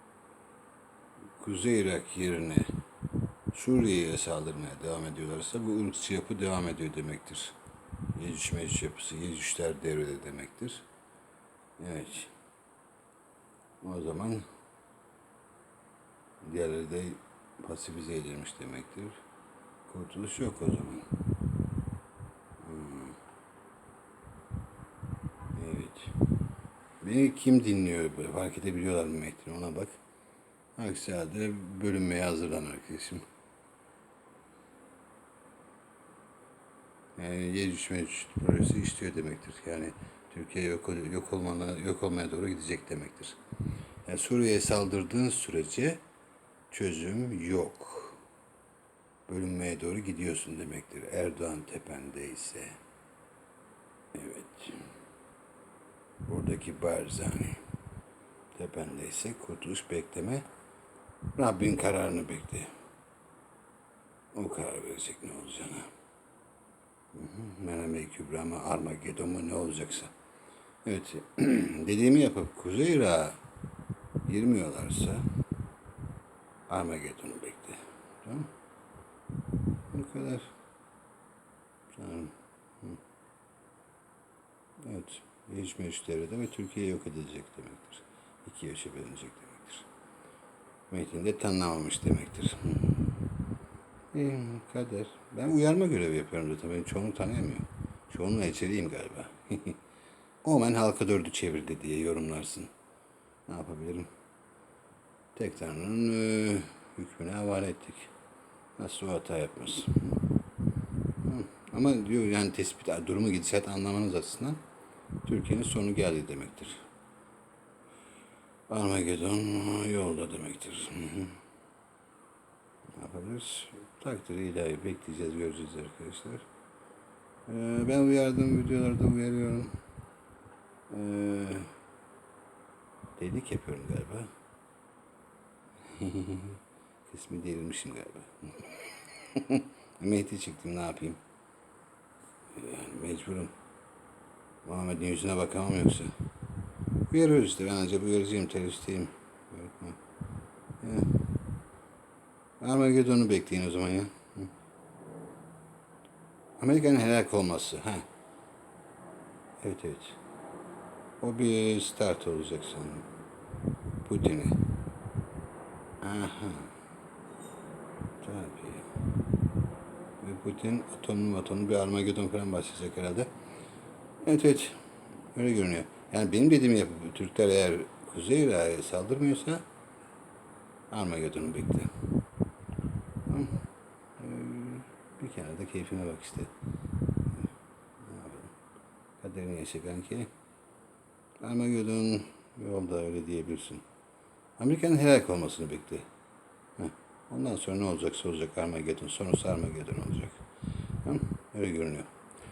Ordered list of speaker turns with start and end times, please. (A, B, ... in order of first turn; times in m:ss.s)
0:01.4-0:02.7 A
0:03.5-0:07.6 A
0:08.1-0:10.8 A
0:11.8-0:12.3 A
0:13.8-0:14.4 A
0:16.4-0:19.2 A
0:19.8-0:21.1 A
0:22.6-0:23.2 A
0:25.5-0:26.2 A
0:27.0-0:30.0 A
0:30.8-0:33.2 A
0:37.2-0:43.4 A
0:44.0-0:46.0 A
0:46.7-0:48.2 A
0:49.3-0:52.8 A
0:54.1-0:54.9 A
0:56.2-0:57.6 A
0:58.5-1:00.4 A
1:01.3-1:02.7 A
1:04.3-1:05.9 A
1:07.1-1:10.1 A
1:10.8-1:13.4 A
1:14.2-1:15.3 A
1:16.7-1:18.5 A
1:19.9-1:20.5 A
1:21.9-1:23.0 A
1:24.8-1:29.9 A
1:30.9-1:33.3 A
1:34.1-1:39.8 A
1:40.4-1:42.7 A
1:43.5-1:44.1 A
1:45.3-1:48.1 A
1:48.8-1:50.2 A
1:51.2-1:54.6 A
1:55.2-1:56.8 A
1:58.7-2:01.4 A
2:03.0-2:06.4 A
2:07.5-2:09.7 A
2:10.9-2:11.7 A
2:13.2-2:14.3 A
2:15.9-2:21.2 A
2:22.5-2:23.5 A
2:24.6-2:26.1 A
2:27.1-2:30.0 A
2:30.8-2:31.4 A
2:32.6-2:34.5 A
2:36.6-2:38.0 A
2:39.6-2:40.2 A
2:41.2-2:43.1 A
2:44.0-2:44.7 A
2:46.0-2:46.7 A
2:48.2-2:48.9 A
2:50.2-2:53.3 A
2:54.2-2:54.8 A
2:55.3-2:59.6 A
3:00.9-3:01.9 A
3:03.2-3:03.6 A
3:04.2-3:06.5 A
3:07.2-3:08.5 A
3:09.2-3:10.3 A
3:11.4-3:13.8 A
3:14.6-3:16.0 A
3:16.8-3:20.4 A
3:21.0-3:22.1 A